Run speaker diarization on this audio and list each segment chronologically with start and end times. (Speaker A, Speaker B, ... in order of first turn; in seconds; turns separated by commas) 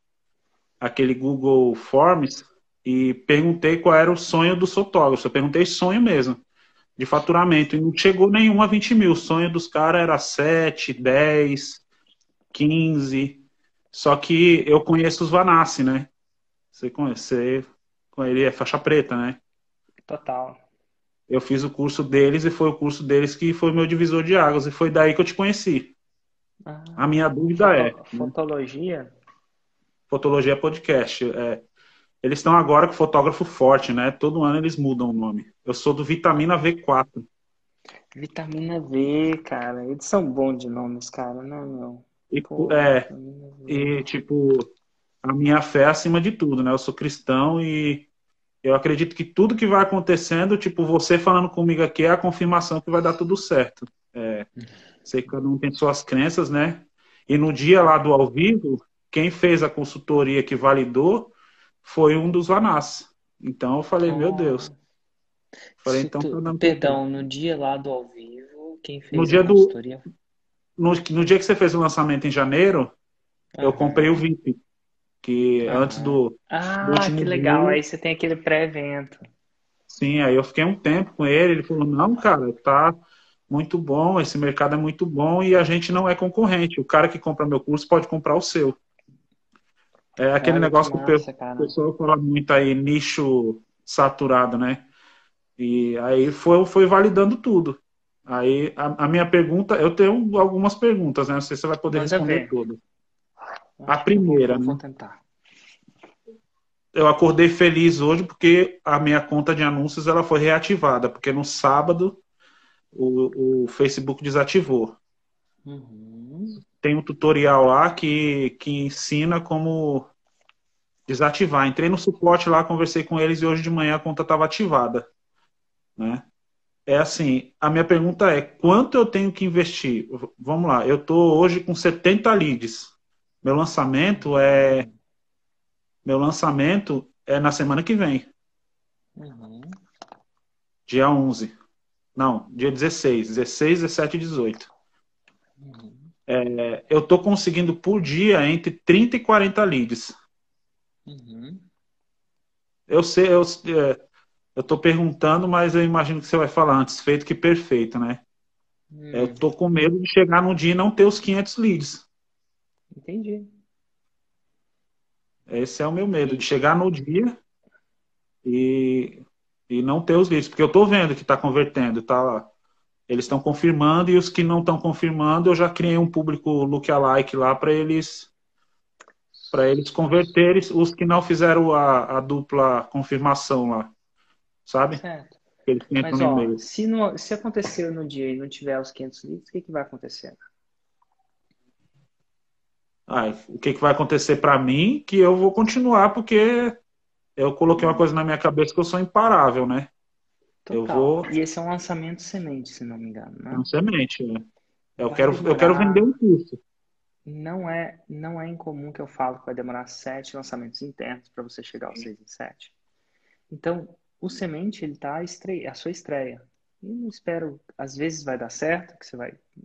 Speaker A: 0.8-6.4, Speaker A: 7.0-11.8, Speaker A: 12.5-13.4, Speaker A: 13.9-16.1, Speaker A: 16.7-19.4, Speaker B: 20.1-20.6, Speaker A: 21.3-25.9, Speaker B: 26.6-29.1, Speaker A: 27.0-28.3, Speaker A: 30.1-31.6, Speaker A: 32.2-37.3, Speaker B: 38.1-44.0, Speaker A: 42.3-43.1, Speaker A: 43.7-44.7, Speaker A: 45.2-48.1, Speaker A: 48.6-54.5, Speaker A: 55.0-61.3, Speaker A: 61.8-64.7, Speaker B: 64.0-64.8, Speaker B: 65.8-70.1, Speaker A: 65.8-67.0, Speaker A: 69.1-69.7, Speaker A: 70.8-72.9, Speaker B: 73.5-74.2, Speaker A: 73.6-74.6, Speaker A: 75.2-77.8, Speaker B: 75.6-79.2, Speaker A: 79.9-82.9, Speaker A: 83.5-88.8, Speaker A: 90.2-94.8, Speaker B: 90.4-91.8, Speaker A: 95.6-102.8, Speaker B: 101.9-102.5, Speaker B: 103.8-105.2, Speaker A: 103.9-104.8, Speaker A: 106.9-112.2, Speaker A: 112.9-115.0, Speaker B: 115.6-116.6, Speaker A: 116.8-120.1, Speaker A: 121.1-125.1, Speaker A: 126.0-126.2, Speaker A: 126.8-132.9, Speaker A: 133.4-134.9, Speaker B: 134.2-135.0, Speaker A: 136.0-138.3, Speaker B: 139.2-139.8, Speaker A: 140.9-141.6, Speaker A: 142.2-144.7, Speaker B: 145.6-146.1, Speaker A: 146.3-150.1, Speaker B: 151.1-151.7, Speaker A: 152.9-154.0, Speaker A: 154.6-158.2, Speaker B: 158.9-159.4, Speaker A: 159.1-162.0, Speaker B: 162.9-163.5, Speaker A: 165.5-167.3, Speaker A: 168.4-172.5, Speaker A: 173.1-178.3, Speaker A: 179.5-183.9, Speaker A: 184.7-185.0, Speaker B: 184.9-185.4, Speaker A: 185.7-186.6, Speaker B: 186.0-190.4, Speaker A: 193.1-196.8, Speaker A: 197.4-199.9, Speaker B: 197.8-198.0, Speaker B: 200.7-203.7, Speaker A: 200.7-201.3, Speaker A: 203.5-204.4, Speaker A: 205.0-206.6, Speaker B: 205.0-206.0, Speaker B: 207.2-212.7, Speaker B: 213.5-219.4